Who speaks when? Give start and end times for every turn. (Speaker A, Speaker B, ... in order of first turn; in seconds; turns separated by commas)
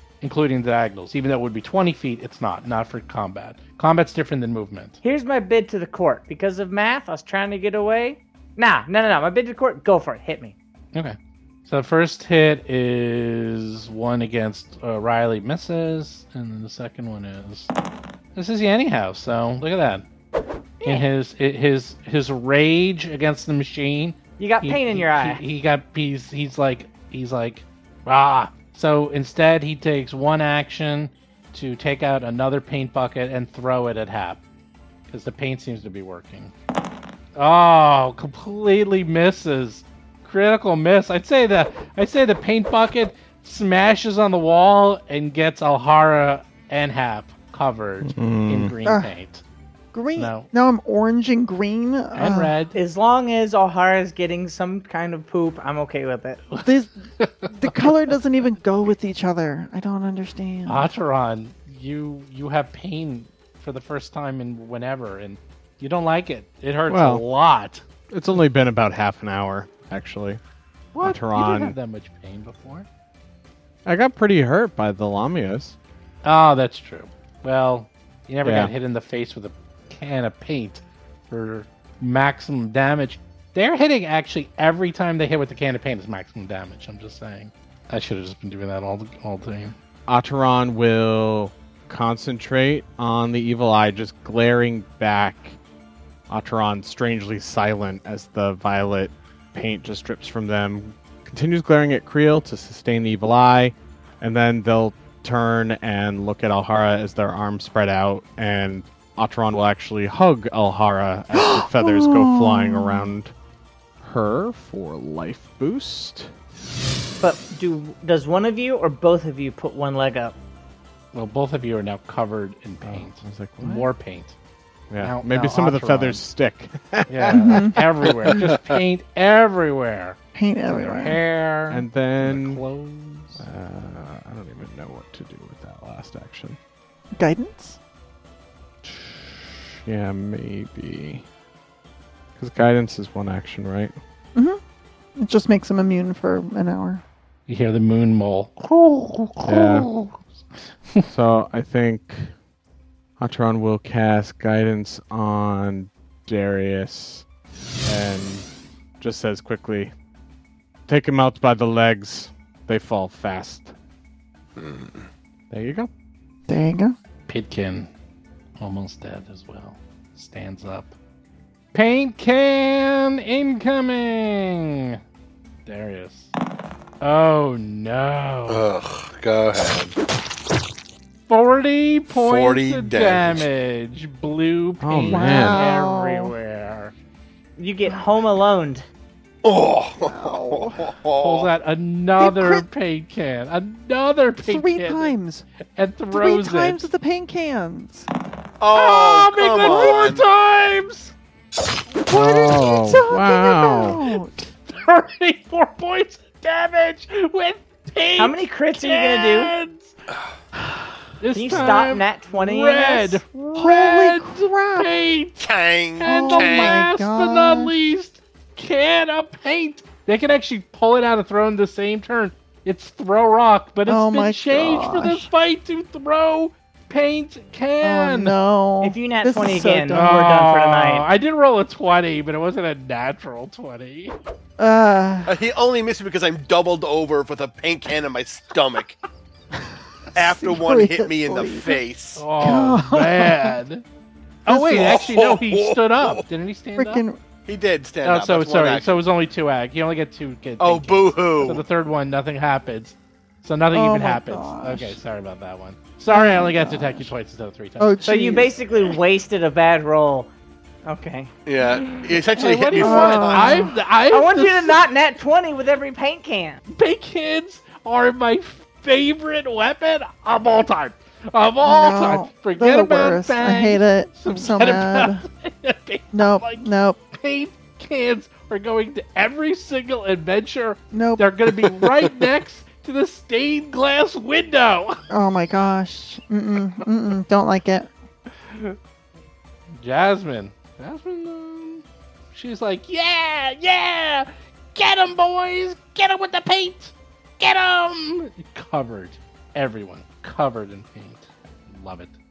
Speaker A: 0.2-5.0, Speaker B: 5.0-10.5, Speaker A: 10.9-17.7, Speaker A: 18.4-20.0, Speaker B: 20.8-21.1, Speaker A: 20.8-34.4, Speaker B: 24.4-25.4, Speaker A: 35.1-36.5, Speaker A: 37.3-49.4, Speaker C: 48.0-48.7, Speaker D: 48.8-49.1, Speaker D: 49.9-52.5, Speaker A: 50.1-50.5, Speaker A: 52.1-52.8, Speaker B: 52.7-56.4, Speaker D: 56.6-60.9, Speaker A: 57.2-57.9, Speaker A: 60.7-67.8, Speaker C: 66.9-67.2, Speaker C: 68.1-70.4, Speaker A: 70.9-72.9, Speaker C: 71.0-71.8, Speaker C: 73.8-75.8, Speaker A: 76.2-89.8, Speaker C: 78.4-78.7, Speaker C: 90.1-95.6, Speaker C: 96.3-113.3, Speaker D: 111.3-113.1, Speaker C: 114.0-116.3, Speaker B: 117.2-120.3, Speaker A: 121.1-124.3, Speaker C: 122.8-123.9, Speaker C: 124.9-127.8, Speaker A: 125.0-126.2, Speaker A: 127.1-133.4, Speaker D: 127.4-127.8, Speaker D: 130.3-131.2, Speaker C: 131.7-132.6, Speaker C: 133.3-136.6, Speaker D: 137.2-137.8, Speaker C: 138.8-141.2, Speaker C: 142.3-143.9, Speaker D: 144.3-144.6, Speaker D: 145.2-147.0, Speaker A: 147.5-150.2, Speaker C: 149.4-149.9, Speaker C: 151.1-152.3, Speaker C: 153.2-157.2, Speaker C: 157.8-158.5, Speaker C: 159.0-159.9, Speaker C: 160.9-163.7, Speaker E: 164.6-165.1, Speaker C: 165.5-165.9, Speaker D: 166.5-166.9, Speaker A: 167.3-167.9, Speaker A: 168.6-170.9, Speaker A: 171.7-175.0, Speaker A: 175.7-176.3, Speaker A: 177.0-178.6, Speaker E: 178.5-179.9, Speaker A: 181.3-186.9, Speaker E: 182.1-183.4, Speaker C: 184.8-185.7, Speaker D: 185.1-186.3, Speaker B: 187.6-188.8, Speaker E: 189.4-191.5, Speaker D: 190.0-190.9, Speaker A: 191.2-195.1, Speaker D: 192.2-192.7, Speaker D: 194.4-195.4, Speaker A: 195.8-196.8, Speaker D: 196.1-198.1, Speaker E: 198.6-200.2, Speaker A: 198.7-201.1, Speaker D: 199.7-200.0, Speaker D: 202.0-204.4, Speaker C: 202.1-204.0, Speaker A: 204.7-209.9, Speaker B: 208.2-209.5, Speaker A: 211.2-215.4, Speaker B: 211.3-213.2, Speaker D: 213.5-214.9, Speaker E: 215.4-216.8, Speaker A: 216.0-228.3, Speaker D: 216.1-217.7, Speaker D: 223.9-225.3, Speaker D: 227.8-230.2, Speaker B: 228.8-231.1, Speaker A: 229.9-234.1, Speaker D: 234.6-235.3, Speaker E: 235.2-239.0, Speaker D: 240.1-241.8, Speaker E: 240.1-242.2, Speaker A: 242.2-243.8, Speaker D: 242.4-243.6, Speaker A: 244.4-247.0, Speaker D: 244.5-245.0, Speaker E: 244.7-246.2, Speaker D: 246.8-247.2, Speaker E: 247.4-249.0, Speaker A: 248.0-258.0, Speaker E: 250.6-251.6, Speaker D: 253.7-255.0, Speaker D: 256.1-257.1, Speaker D: 257.8-258.9, Speaker B: 258.0-260.3, Speaker B: 260.9-261.3, Speaker E: 261.4-263.7, Speaker A: 261.7-264.8, Speaker D: 262.7-263.7, Speaker B: 264.1-266.6, Speaker A: 266.7-285.0, Speaker D: 271.6-275.2, Speaker D: 276.1-277.0, Speaker D: 280.9-281.3, Speaker D: 285.1-287.9, Speaker A: 288.5-288.8, Speaker A: 289.7-302.2